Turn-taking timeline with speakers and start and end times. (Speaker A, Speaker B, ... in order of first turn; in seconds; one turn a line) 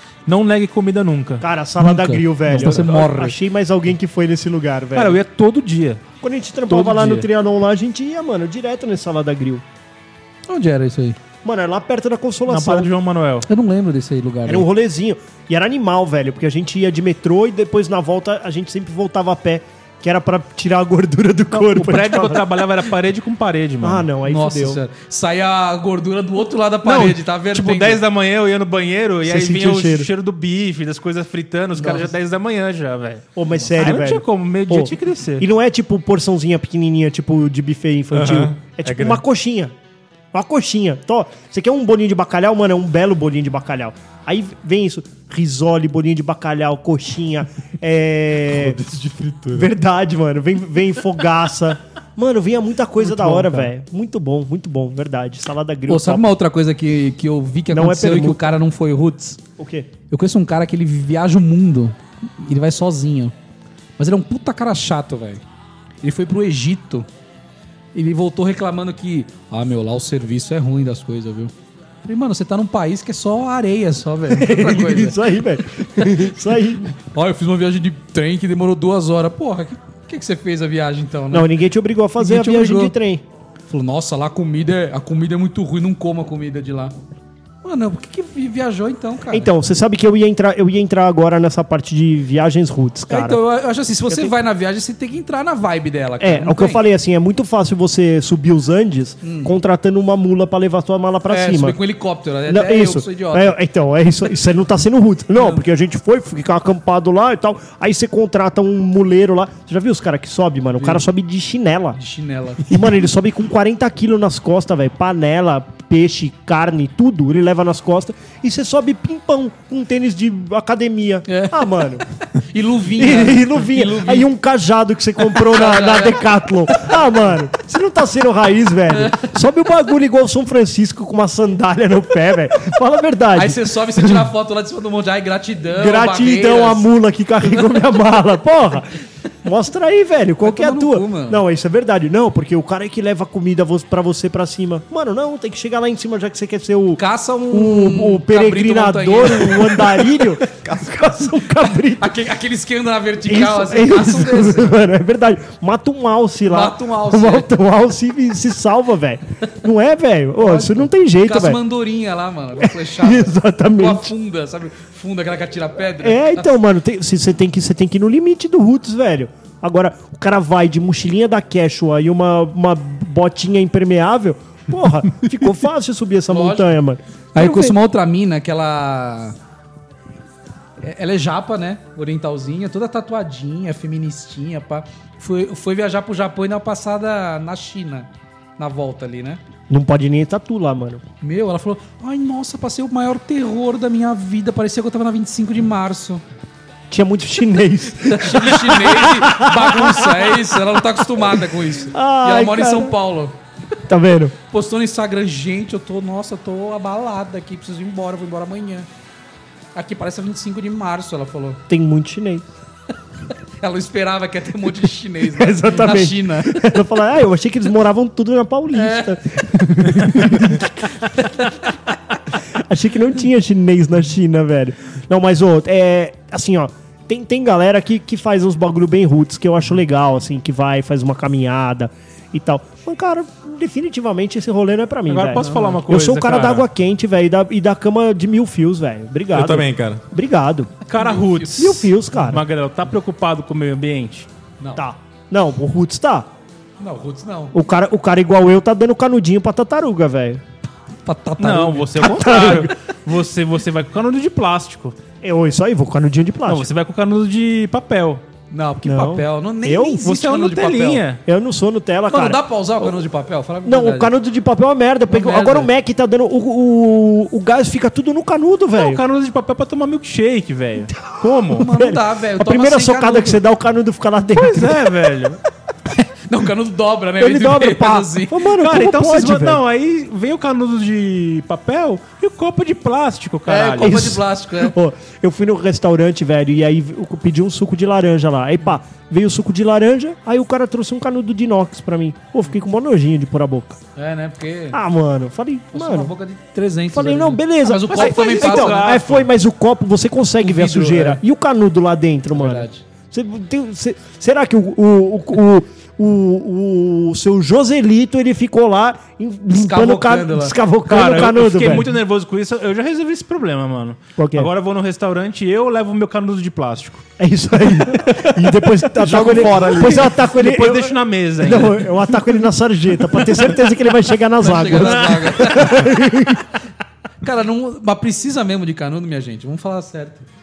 Speaker A: 0.3-1.4
Speaker B: 1.4-5.2
Speaker C: 1.8-3.4
Speaker A: 2.5-2.9
Speaker A: 4.9-6.0
Speaker B: 6.2-9.6
Speaker A: 6.7-7.3
Speaker C: 10.5-11.2
Speaker B: 11.4-12.9
Speaker A: 12.5-13.5
Speaker C: 13.5-14.7
Speaker B: 14.5-22.4
Speaker A: 21.5-24.1
Speaker B: 23.8-24.8
Speaker C: 24.2-28.0
Speaker A: 26.8-35.5
Speaker B: 29.2-30.1
Speaker C: 31.8-32.1
Speaker B: 33.4-39.7
Speaker D: 38.1-39.2
Speaker B: 40.3-48.8
Speaker D: 48.4-49.7
Speaker B: 49.5-56.3
Speaker C: 55.9-59.4
Speaker B: 57.7-58.5
Speaker B: 59.6-59.9
Speaker C: 60.1-63.3
Speaker C: 64.0-65.4
Speaker C: 66.0-67.1
Speaker C: 67.9-71.5
Speaker C: 72.0-75.2
Speaker B: 74.3-76.9
Speaker C: 77.0-81.5
Speaker B: 81.3-83.2
Speaker C: 82.2-83.0
Speaker C: 83.7-86.9
Speaker C: 87.6-89.5
Speaker B: 89.3-93.4
Speaker C: 93.1-96.8
Speaker B: 96.2-101.8
Speaker C: 99.2-99.5
Speaker C: 101.3-103.6
Speaker B: 102.5-112.0
Speaker C: 105.4-105.6
Speaker C: 110.8-111.0
Speaker C: 112.0-112.9
Speaker B: 112.7-122.0
Speaker C: 121.3-121.7
Speaker C: 122.4-124.3
Speaker B: 123.0-134.3
Speaker C: 125.2-127.0
Speaker C: 128.9-129.3
Speaker C: 133.3-136.9
Speaker B: 135.7-152.1
Speaker C: 137.5-137.8
Speaker C: 140.4-141.4
Speaker C: 147.0-150.3
Speaker C: 152.0-154.8
Speaker B: 153.3-161.6
Speaker C: 156.5-157.5
Speaker C: 160.4-166.6
Speaker B: 162.6-164.1
Speaker B: 166.0-177.7
Speaker C: 176.3-176.7
Speaker C: 177.3-179.4
Speaker C: 180.8-189.4
Speaker B: 189.7-191.0
Speaker C: 191.2-196.2
Speaker B: 196.9-200.6
Speaker C: 198.0-203.4
Speaker B: 201.9-202.9
Speaker B: 203.9-204.3
Speaker C: 204.5-208.9
Speaker C: 209.8-211.6
Speaker B: 211.7-212.4
Speaker C: 213.6-216.7
Speaker B: 215.4-221.4
Speaker C: 218.7-219.2
Speaker C: 221.2-221.7
Speaker B: 222.6-240.7
Speaker A: 235.1-236.7
Speaker C: 235.4-235.8
Speaker D: 239.3-240.0
Speaker A: 240.9-244.3
Speaker C: 240.9-241.7
Speaker B: 241.6-242.4
Speaker B: 244.8-246.3
Speaker C: 246.8-247.5
Speaker B: 247.5-250.4
Speaker C: 251.1-252.6
Speaker A: 251.4-255.0
Speaker B: 252.0-252.7
Speaker B: 255.2-256.7
Speaker A: 256.5-258.2
Speaker C: 258.5-261.1
Speaker B: 258.9-260.0
Speaker A: 260.0-261.2
Speaker B: 261.3-262.4
Speaker C: 262.1-264.1
Speaker B: 263.6-269.0
Speaker C: 265.1-265.7
Speaker A: 268.8-271.7
Speaker B: 271.1-274.9
Speaker C: 271.6-273.4
Speaker A: 274.4-275.4
Speaker C: 276.3-278.5
Speaker B: 277.2-279.6
Speaker A: 278.6-284.2
Speaker C: 283.5-284.7
Speaker B: 283.8-293.8
Speaker C: 294.0-294.8
Speaker B: 294.7-296.1
Speaker C: 295.7-298.9
Speaker B: 296.9-311.9
Speaker A: 297.9-299.3
Speaker C: 300.4-301.2
Speaker C: 302.3-302.8
Speaker C: 309.5-310.6
Speaker A: 310.9-317.0
Speaker B: 314.2-314.5
Speaker B: 317.2-326.5
Speaker D: 318.1-320.2
Speaker A: 319.8-322.2
Speaker A: 323.2-323.6
Speaker C: 324.4-325.9
Speaker A: 324.7-325.2
Speaker C: 327.2-330.3